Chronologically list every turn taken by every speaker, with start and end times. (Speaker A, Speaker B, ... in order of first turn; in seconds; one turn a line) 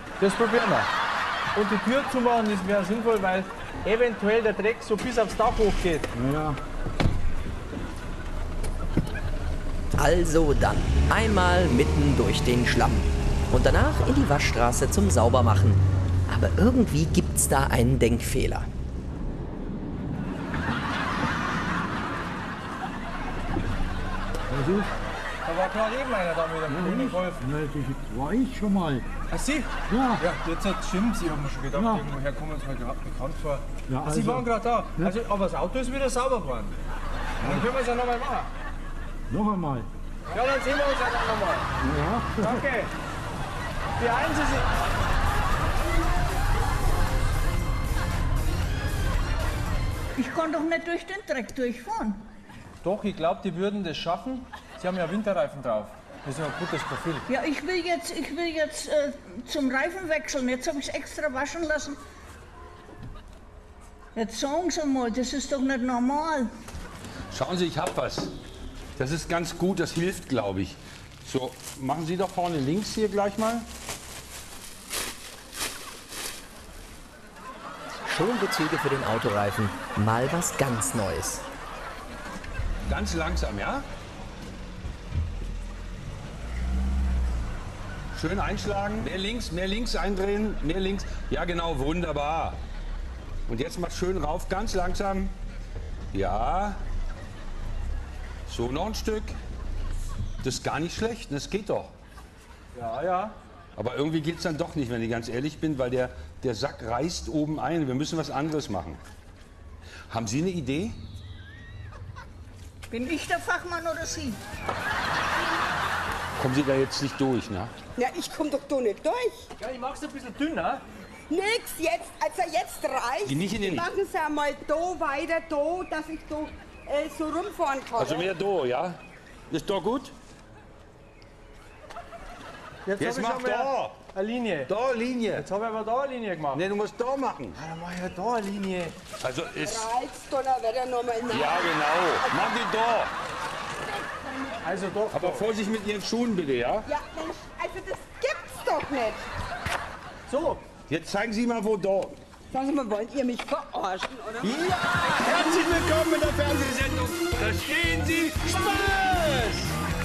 Speaker A: 0.2-0.9
Speaker A: 1.5-6.1
Speaker B: 6.2-6.6
Speaker C: 10.0-18.7
Speaker B: 24.5-24.9
Speaker A: 25.4-27.5
Speaker B: 26.7-29.1
Speaker A: 29.3-36.8
Speaker B: 29.9-30.2
Speaker B: 31.8-32.0
Speaker B: 33.9-34.5
Speaker A: 37.4-38.5
Speaker B: 39.3-39.9
Speaker A: 40.3-41.7
Speaker B: 41.8-42.5
Speaker A: 42.3-42.9
Speaker A: 44.0-44.7
Speaker D: 50.1-52.2
Speaker A: 52.8-57.2
Speaker D: 57.3-62.0
Speaker D: 64.1-66.5
Speaker E: 67.3-68.3
Speaker E: 69.0-73.7
Speaker C: 78.0-81.4
Speaker E: 82.9-83.8
Speaker E: 88.1-92.6
Speaker E: 93.5-95.3
Speaker E: 96.1-96.8
Speaker E: 98.5-99.3
Speaker E: 100.4-101.9
Speaker A: 102.7-103.3
Speaker E: 103.8-109.0
Speaker E: 110.1-111.0
Speaker D: 112.9-114.4
Speaker E: 116.4-117.7
Speaker F: 118.0-119.5
Speaker A: 119.6-120.8
Speaker F: 121.3-128.3
Speaker E: 123.2-123.9
Speaker E: 128.0-129.0
Speaker E: 129.5-130.1
Speaker A: 132.8-134.7
Speaker E: 133.0-134.0
Speaker E: 134.7-135.5
Speaker A: 135.3-136.6
Speaker E: 136.5-137.6
Speaker A: 137.5-138.9
Speaker E: 139.2-139.9
Speaker F: 139.6-142.5
Speaker E: 141.3-143.1
Speaker F: 143.9-144.8
Speaker A: 144.6-145.5
Speaker E: 145.1-146.9
Speaker F: 146.9-149.3
Speaker A: 150.3-150.6
Speaker E: 150.9-152.2
Speaker F: 152.5-154.7
Speaker E: 154.4-159.8